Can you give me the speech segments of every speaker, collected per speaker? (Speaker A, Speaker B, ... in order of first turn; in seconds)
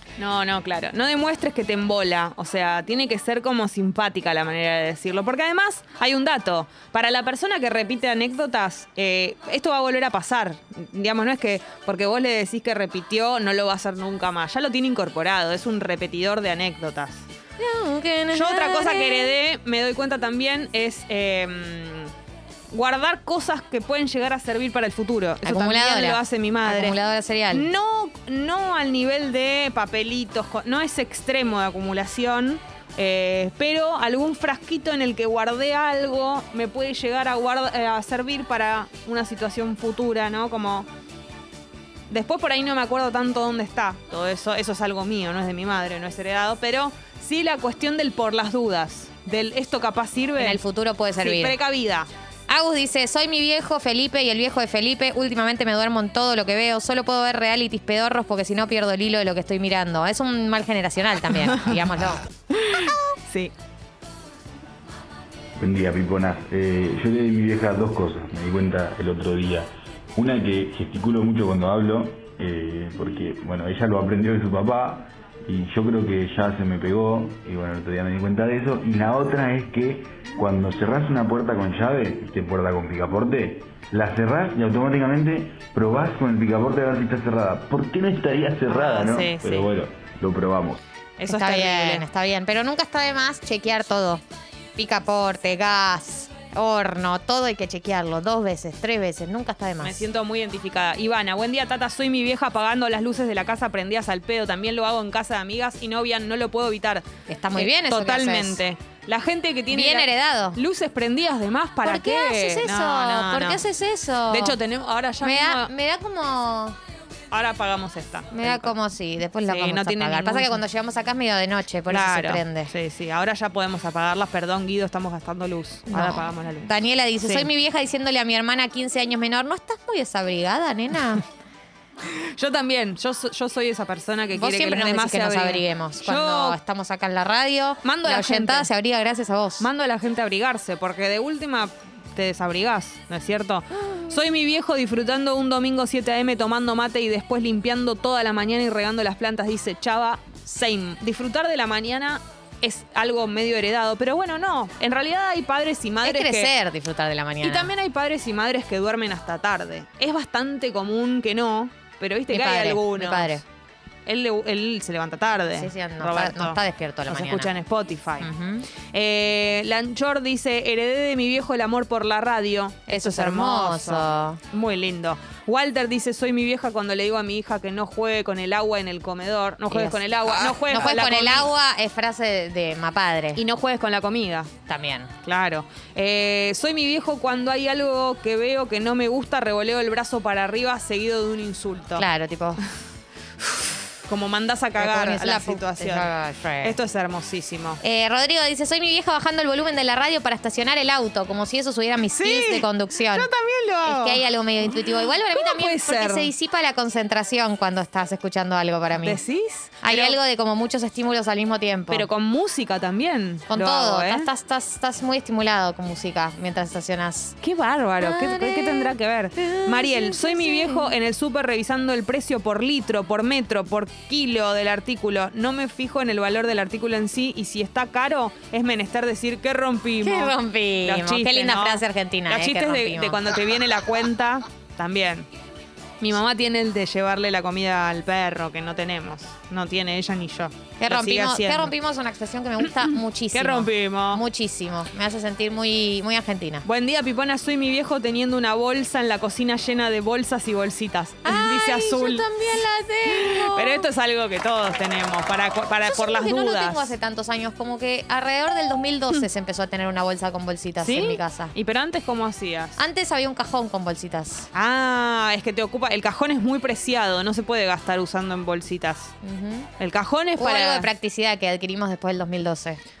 Speaker A: 0.2-17.2, 18.3-22.1, 22.7-26.9, 27.5-40.9, 42.1-50.6, 51.2-52.1, 62.5-63.5, 88.7-89.7, 91.2-92.0, 99.8-113.6, 114.3-115.7, 117.3-118.7, 119.4-120.6, 121.9-127.5, 132.1-136.6, 137.8-138.7, 139.6-156.5, 157.4-163.4, 164.1-181.5, 183.3-184.5, 185.2-192.0, 194.0-196.1, 196.6-197.8, 202.2-204.2, 205.3-206.3, 208.9-210.2, 211.9-214.3, 217.4-235.3, 236.0-241.7, 243.3-244.2, 246.6-252.3, 253.1-256.9, 260.8-262.8, 264.5-269.1, 269.8-270.9
Speaker B: 17.6-19.3, 25.4-27.7, 50.4-51.5, 52.5-62.2, 91.3-94.2, 94.8-100.0, 107.3-108.6, 109.7-110.6, 111.8-114.6, 115.2-116.8, 118.3-122.7, 125.9-131.2, 134.3-139.7, 156.0-157.7, 162.3-163.4, 165.5-167.5, 168.2-168.7, 172.9-174.4, 179.7-183.4, 184.7-185.1, 191.9-192.6, 194.8-196.8, 197.8-203.3, 203.8-209.2, 209.8-212.1, 213.5-217.3, 218.0-220.9, 230.0-233.2, 240.8-246.7, 251.2-253.8, 255.8-261.5, 262.8-264.5, 269.2-269.7, 270.4-272.8
Speaker C: 65.6-90.8